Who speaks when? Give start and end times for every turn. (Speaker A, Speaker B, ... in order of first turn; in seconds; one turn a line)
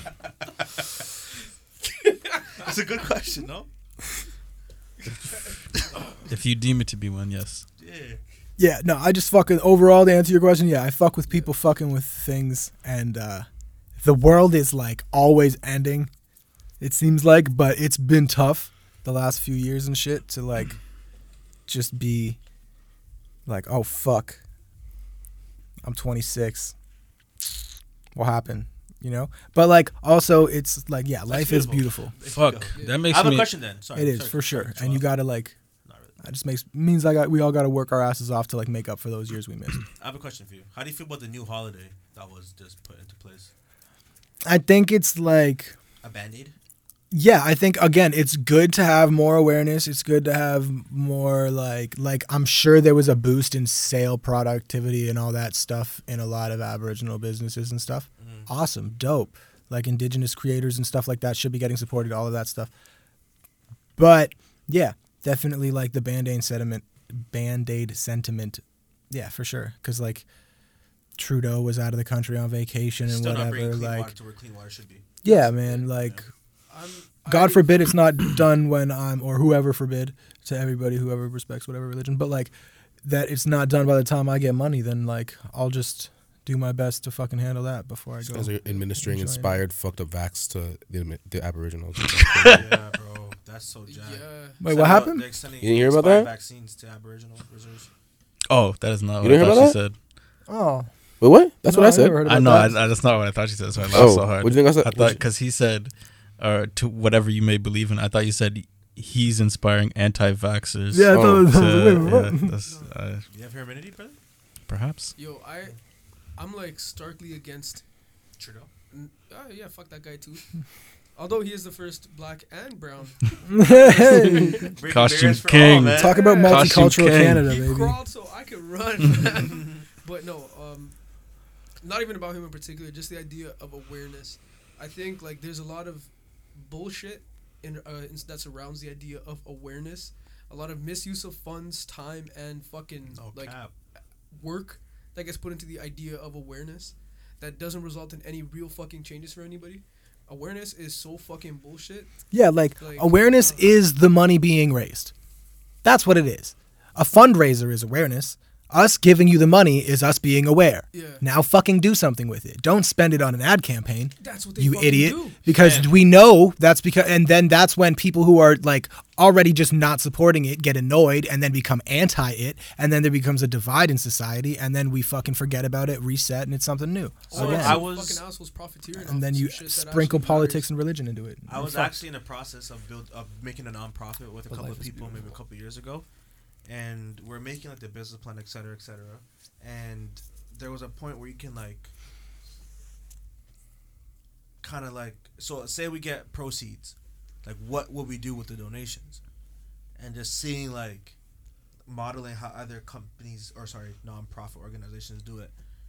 Speaker A: 1.9-2.7
Speaker B: 2.6-3.7
Speaker C: 6.3-7.6
Speaker B: 7.8-8.2
Speaker D: 8.6-13.4
Speaker D: 14.0-16.1
Speaker D: 16.8-20.8
Speaker D: 21.7-22.4
Speaker D: 23.4-24.4
Speaker D: 25.8-26.7
Speaker D: 28.1-32.1
Speaker B: 31.3-35.1
Speaker C: 32.2-33.5
Speaker A: 32.7-33.0
Speaker D: 33.9-35.5
Speaker B: 35.8-36.2
Speaker D: 36.2-39.8
Speaker B: 40.0-43.5
Speaker D: 44.4-45.7
Speaker B: 46.0-46.5
Speaker D: 47.1-62.7
Speaker B: 58.2-58.5
Speaker D: 64.0-70.2
Speaker D: 71.2-74.1
Speaker B: 73.0-75.2
Speaker D: 75.2-76.3
Speaker A: 75.2-75.9
Speaker B: 75.9-76.2
Speaker A: 76.7-78.0
Speaker D: 77.3-82.5
Speaker D: 83.0-89.6
Speaker E: 88.2-92.7
Speaker C: 92.2-92.6
Speaker B: 92.4-97.9
Speaker A: 93.9-94.6
Speaker D: 94.6-95.2
Speaker E: 95.6-96.3
Speaker C: 98.5-99.9
Speaker E: 99.2-99.8
Speaker D: 100.5-100.9
Speaker E: 101.2-102.2
Speaker D: 101.7-102.8
Speaker C: 102.2-113.2
Speaker E: 103.9-105.2
Speaker D: 110.9-112.5
Speaker E: 111.1-111.5
Speaker A: 112.7-112.9
Speaker B: 113.3-114.2
Speaker C: 114.7-115.2
Speaker A: 115.2-115.8
Speaker A: 116.4-117.8
Speaker B: 118.4-118.7
Speaker A: 118.9-120.5
Speaker A: 121.2-124.7
Speaker D: 123.5-124.7
Speaker B: 124.6-126.2
Speaker C: 124.8-127.5
Speaker D: 125.9-128.0
Speaker A: 126.0-126.8
Speaker A: 127.4-130.9
Speaker B: 129.4-129.8
Speaker A: 131.8-143.6
Speaker B: 143.1-143.7
Speaker A: 144.3-152.1
Speaker D: 152.3-155.1
Speaker A: 152.8-153.7
Speaker D: 155.8-177.9
Speaker A: 160.9-161.2
Speaker A: 164.2-165.4
Speaker B: 165.5-165.9
Speaker A: 177.3-180.7
Speaker B: 177.3-178.2
Speaker D: 178.9-182.0
Speaker B: 181.5-186.0
Speaker D: 184.5-185.3
Speaker B: 186.7-191.9
Speaker B: 194.6-199.2
Speaker B: 200.0-201.2
Speaker B: 201.9-205.5